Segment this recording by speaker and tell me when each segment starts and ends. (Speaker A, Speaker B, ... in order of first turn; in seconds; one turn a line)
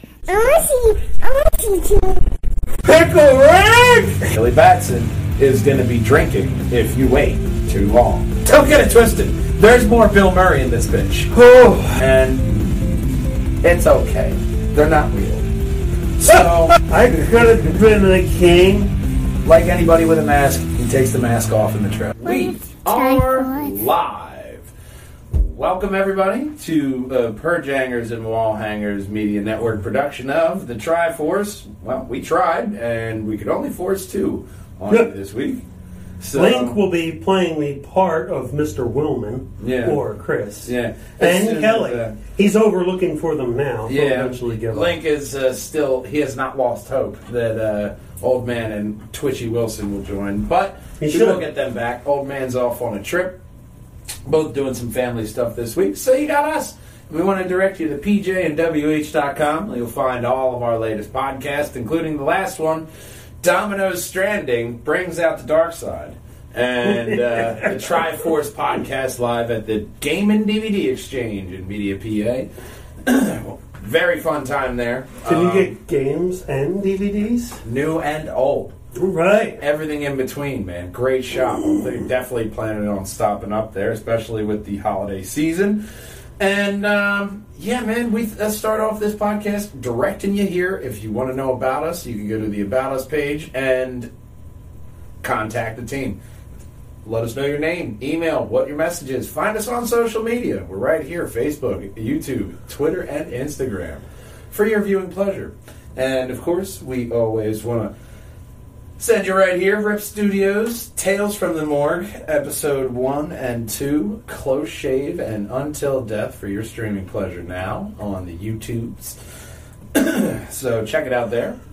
Speaker A: 0.3-2.2
Speaker B: 2.8-4.3
Speaker C: 4.3-11.3
Speaker B: 11.3-12.0
Speaker C: 11.9-12.7
Speaker C: 13.6-15.5
Speaker C: 16.2-16.7
Speaker B: 16.7-18.9
Speaker C: 19.4-24.7
Speaker A: 22.2-23.8
Speaker C: 25.3-35.6
Speaker C: 36.2-36.8
Speaker B: 36.3-44.9
Speaker C: 39.6-40.0
Speaker C: 40.6-42.1
Speaker C: 43.9-53.4
Speaker B: 51.0-51.4
Speaker C: 54.2-62.9
Speaker C: 63.4-72.5
Speaker B: 66.9-68.1
Speaker C: 73.0-75.7
Speaker B: 75.2-77.6
Speaker C: 77.6-78.7
Speaker B: 78.9-79.6
Speaker C: 79.6-85.8
Speaker C: 86.4-94.1
Speaker C: 95.2-96.2
Speaker C: 97.0-107.9
Speaker C: 109.0-119.2
Speaker C: 119.9-121.6